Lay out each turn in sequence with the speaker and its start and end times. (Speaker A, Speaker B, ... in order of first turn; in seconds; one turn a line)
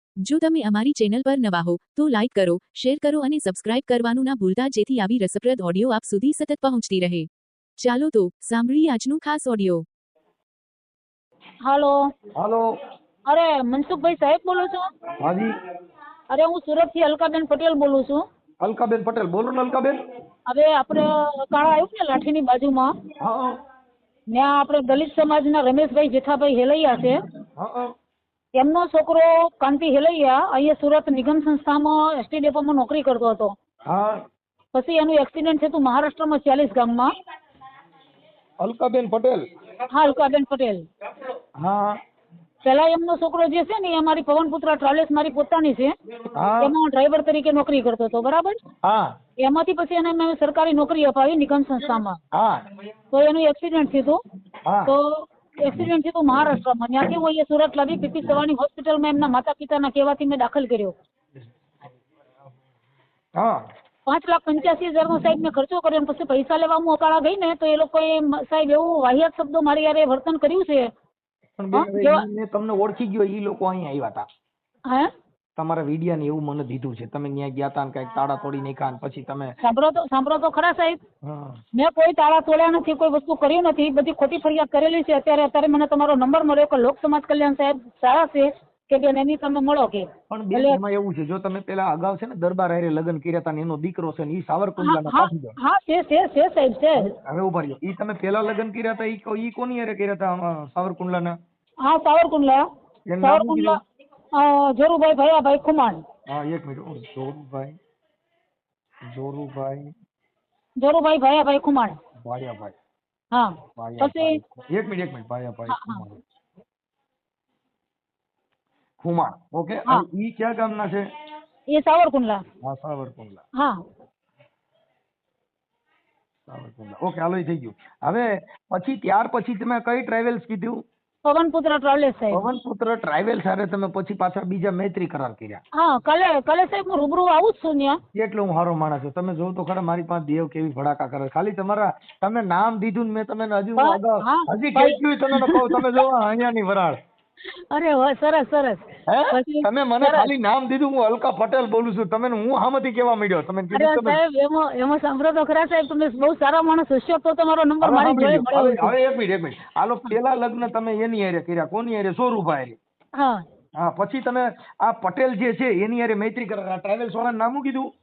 Speaker A: 0.2-9.8
Speaker B: 11.6-11.9
Speaker C: 12.4-12.7
Speaker B: 13.3-14.8
Speaker C: 15.2-15.5
Speaker B: 16.3-18.2
Speaker C: 18.6-20.0
Speaker B: 20.5-22.9
Speaker C: 23.2-23.6
Speaker B: 24.3-27.2
Speaker C: 27.6-27.9
Speaker B: 28.6-33.6
Speaker C: 33.9-34.2
Speaker B: 34.7-37.1
Speaker C: 38.6-39.4
Speaker B: 39.9-40.9
Speaker C: 41.6-42.0
Speaker B: 42.6-45.9
Speaker C: 46.4-46.7
Speaker B: 46.6-48.6
Speaker C: 48.8-49.1
Speaker B: 49.4-52.2
Speaker C: 52.3-52.6
Speaker B: 53.1-54.2
Speaker C: 54.7-55.0
Speaker B: 54.9-61.0
Speaker B: 64.1-70.9
Speaker C: 71.6-74.2
Speaker B: 71.7-72.3
Speaker C: 75.6-79.5
Speaker B: 79.6-81.0
Speaker C: 81.2-81.6
Speaker B: 81.8-90.8
Speaker C: 90.3-95.5
Speaker B: 94.8-97.1
Speaker C: 97.0-101.3
Speaker B: 101.8-102.6
Speaker C: 103.1-103.8
Speaker B: 103.2-103.8
Speaker B: 104.4-106.0
Speaker C: 106.3-107.8
Speaker C: 109.1-109.9
Speaker B: 110.8-112.0
Speaker C: 112.2-112.8
Speaker B: 113.3-114.4
Speaker C: 113.8-116.2
Speaker B: 115.7-116.0
Speaker C: 119.0-121.0
Speaker B: 121.7-122.4
Speaker C: 122.6-123.4
Speaker C: 126.5-130.8
Speaker B: 131.2-132.5
Speaker C: 132.3-135.6
Speaker B: 135.8-138.0
Speaker C: 138.1-147.0
Speaker B: 143.8-146.0
Speaker B: 147.7-150.3
Speaker C: 149.1-154.2
Speaker B: 153.7-158.9
Speaker C: 157.8-162.8
Speaker B: 163.2-163.4
Speaker C: 163.8-167.9